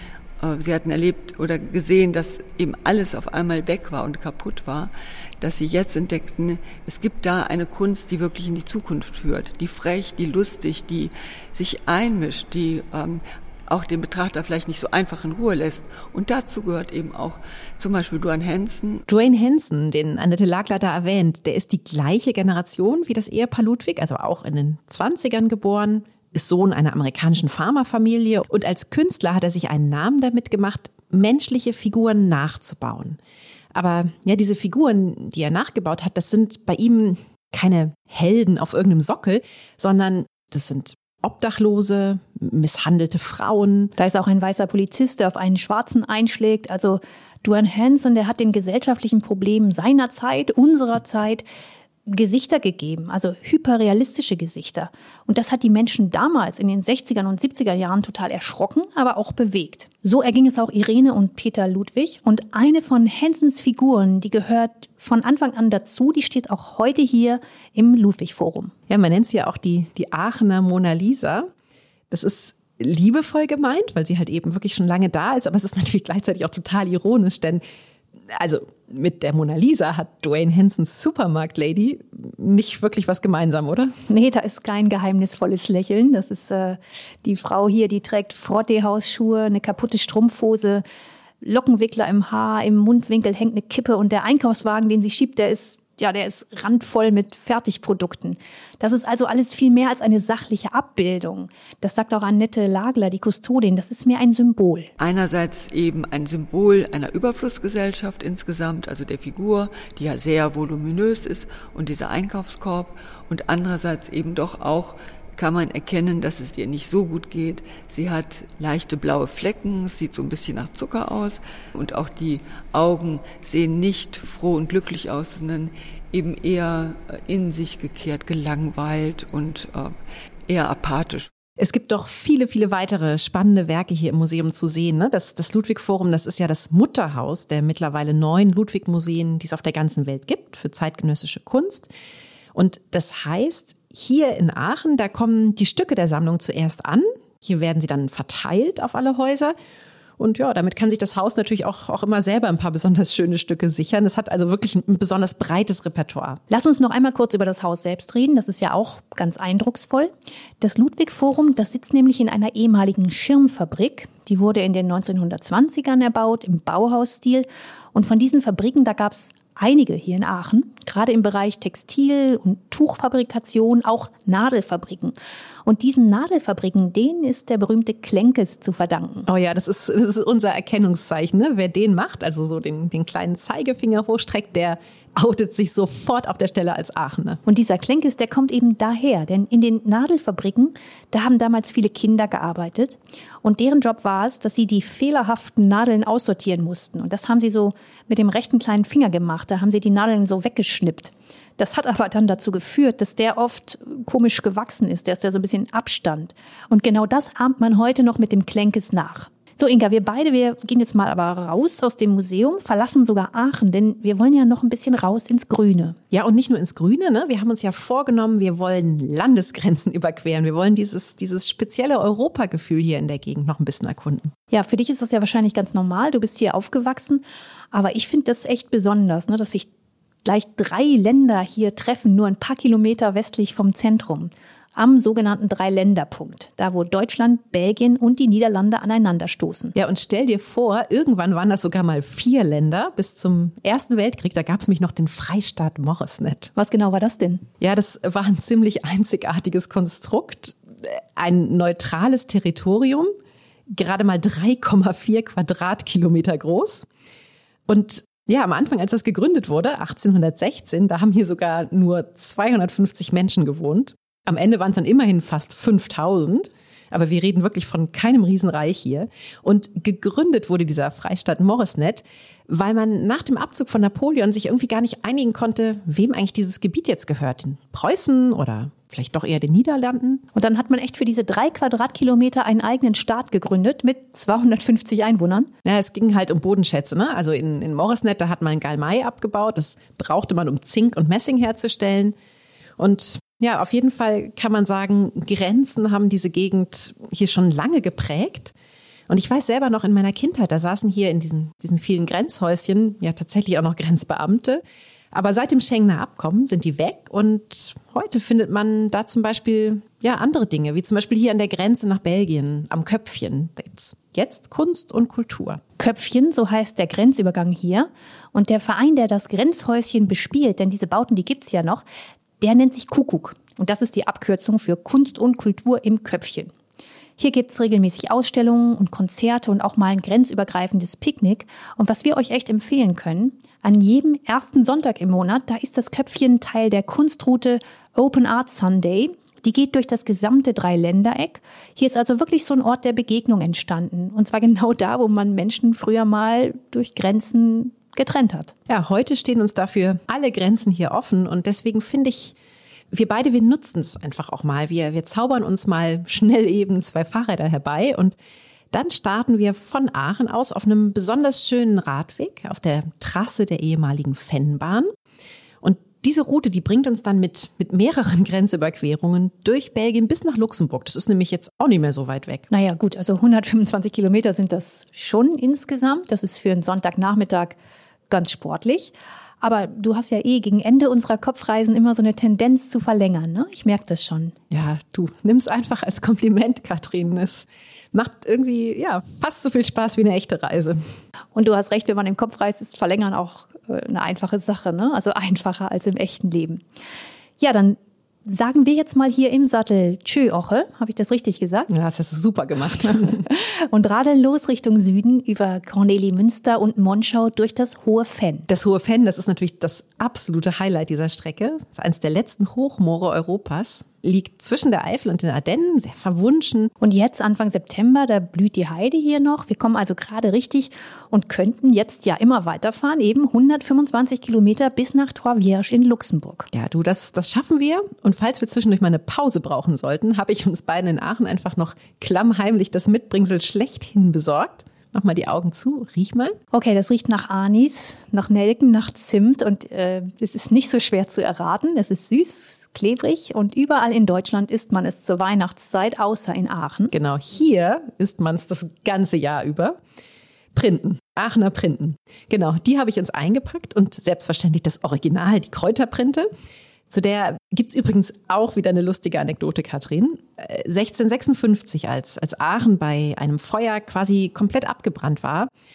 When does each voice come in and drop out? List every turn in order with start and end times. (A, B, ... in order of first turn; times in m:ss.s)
0:00.4-0:19.0 A
0:19.1-0:33.2 B
0:33.7-0:43.9 B
0:44.0-0:51.5 C
0:52.1-1:08.7 C
1:08.9-1:11.5 B
1:12.1-1:17.6 B
1:18.3-1:24.0 B
1:24.1-1:30.8 C
1:31.4-1:44.9 C
1:45.0-2:11.3 A
2:11.6-2:21.9 B
2:22.5-2:29.6 B
2:30.2-2:36.4 B
2:36.5-2:59.3 C
2:59.3-3:07.4 B
3:07.5-3:36.0 C
3:36.1-3:44.3 B
3:44.5-3:49.7 C
3:50.2-3:59.8 C
3:59.8-4:06.5 B
4:06.6-4:07.5 C
4:07.6-4:13.1 B
4:13.7-4:16.9 B
4:17.7-4:40.2 B
4:40.4-4:45.5 C
4:45.6-4:52.2 B
4:52.8-4:58.5 B
4:59.1-5:15.6 B
5:15.8-5:21.8 C
5:22.4-5:26.5 C
5:27.2-5:48.5 C
5:48.7-5:52.4 B
5:52.9-5:58.2 B
5:58.7-6:04.9 B
6:05.6-6:12.5 B
6:12.5-6:17.6 C
6:18.1-6:24.4 C
6:24.5-6:30.8 B
6:31.3-6:36.6 C
6:37.4-6:41.7 C
6:41.7-6:43.3 B
6:42.8-6:48.5 C
6:48.5-6:56.7 B
6:56.8-7:06.5 C
7:06.5-7:16.4 B
7:16.5-7:26.9 C
7:26.9-7:29.8 B
7:30.5-7:36.3 B
7:36.9-7:45.5 B